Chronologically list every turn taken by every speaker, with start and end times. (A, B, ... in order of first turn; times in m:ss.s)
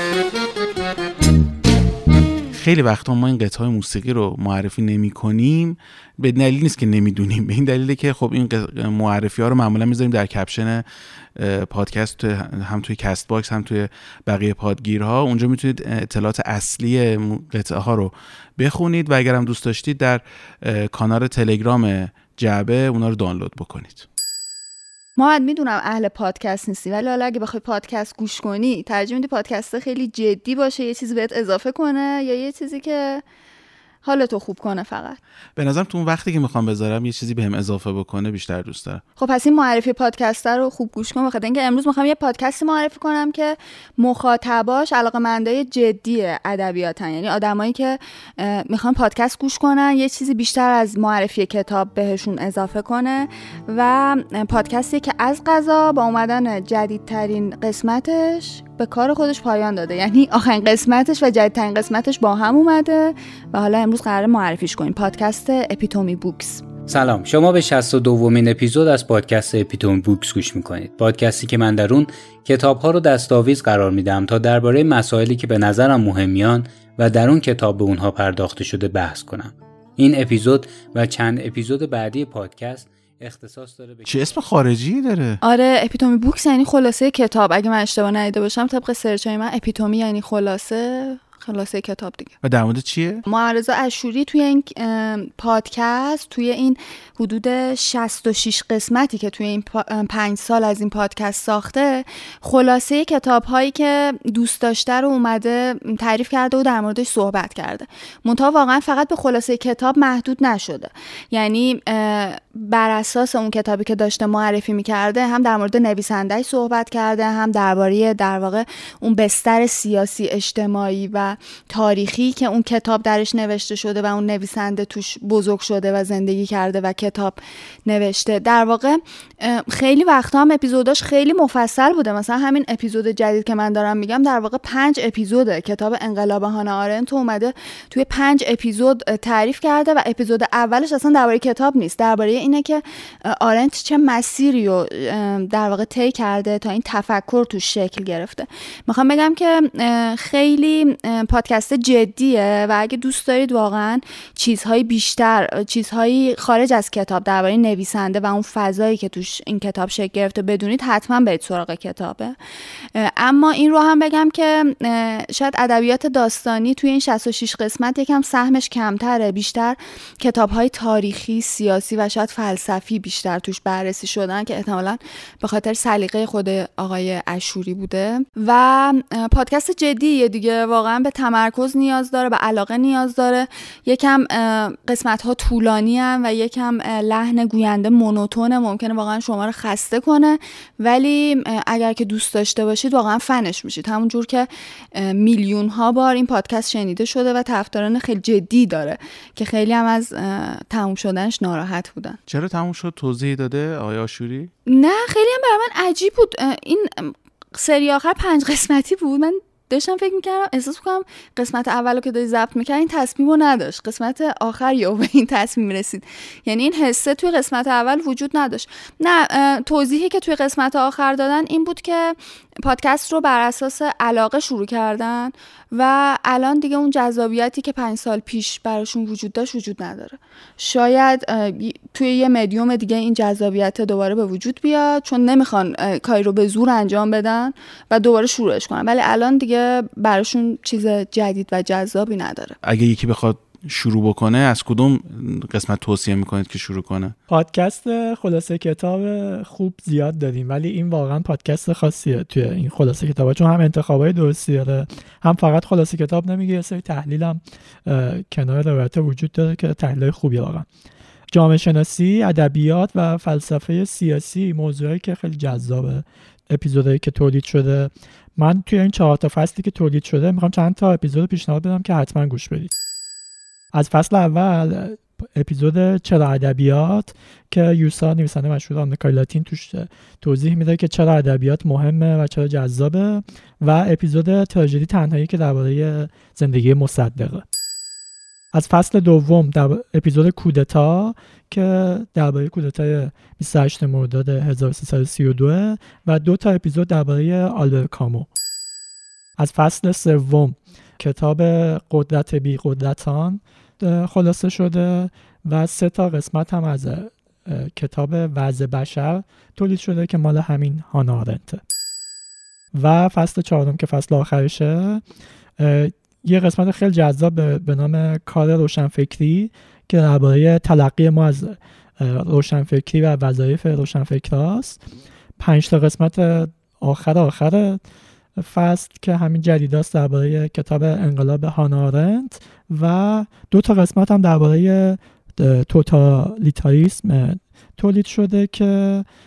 0:02.5-0:24.1 A
0:25.2-0:33.2 B
0:34.0-0:35.2 B
0:35.6-0:39.0 A
0:39.2-1:06.6 B
1:06.9-1:24.2 C
1:24.0-1:25.4 A
1:25.4-1:32.3 B
1:32.4-1:33.2 A
1:33.3-2:42.4 B
2:42.9-3:22.2 B
3:22.3-3:24.5 A
3:24.7-4:02.6 B
4:02.6-4:07.2 A
4:07.3-4:20.7 D
4:21.3-4:32.7 D
4:33.7-4:47.4 D
4:48.5-4:58.3 D
4:59.4-5:11.6 D
5:12.7-5:15.0 D
5:15.6-5:24.8 D
5:25.4-5:27.8 D
5:28.4-5:39.1 D